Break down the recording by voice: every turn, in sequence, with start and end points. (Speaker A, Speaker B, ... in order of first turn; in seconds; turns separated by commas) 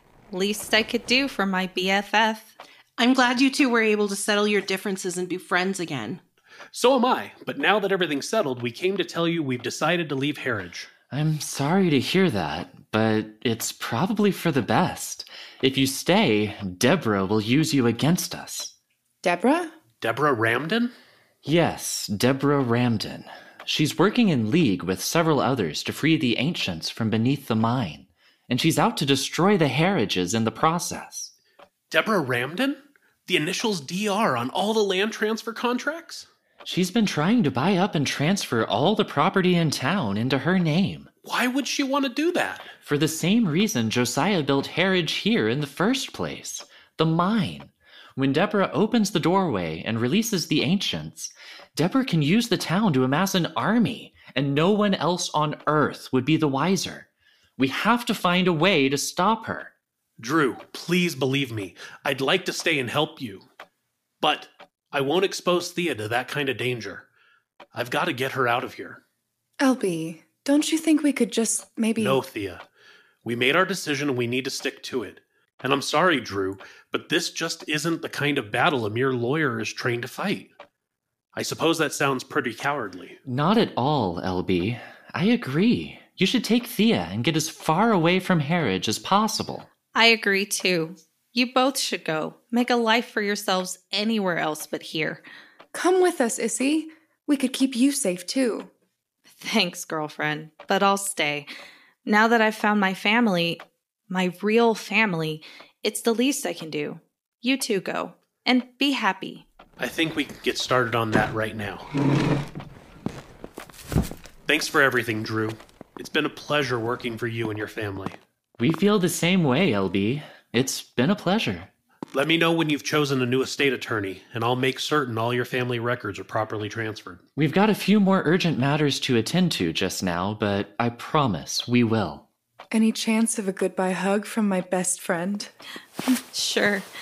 Speaker A: 0.3-2.5, Speaker B: 3.0-6.2, Speaker C: 6.7-10.9, Speaker D: 11.1-18.7, Speaker E: 19.2-19.7, Speaker C: 20.0-20.9, Speaker D: 21.4-31.3, Speaker C: 31.9-36.2, Speaker D: 36.6-41.1, Speaker C: 41.2-42.7, Speaker D: 42.8-59.7, Speaker C: 60.2-63.5, Speaker C: 64.2-67.0, Speaker C: 67.7-69.0, Speaker E: 69.6-72.2, Speaker C: 72.0-72.6, Speaker C: 73.2-80.5, Speaker C: 81.3-83.2, Speaker D: 83.2-89.7, Speaker A: 89.9-95.2, Speaker E: 95.7-98.7, Speaker A: 99.3-101.5, Speaker A: 102.0-109.5, Speaker C: 109.8-111.9, Speaker C: 114.5-118.2, Speaker D: 118.6-121.7, Speaker C: 122.1-127.2, Speaker D: 127.4-132.2, Speaker E: 132.7-135.5, Speaker A: 136.3-136.8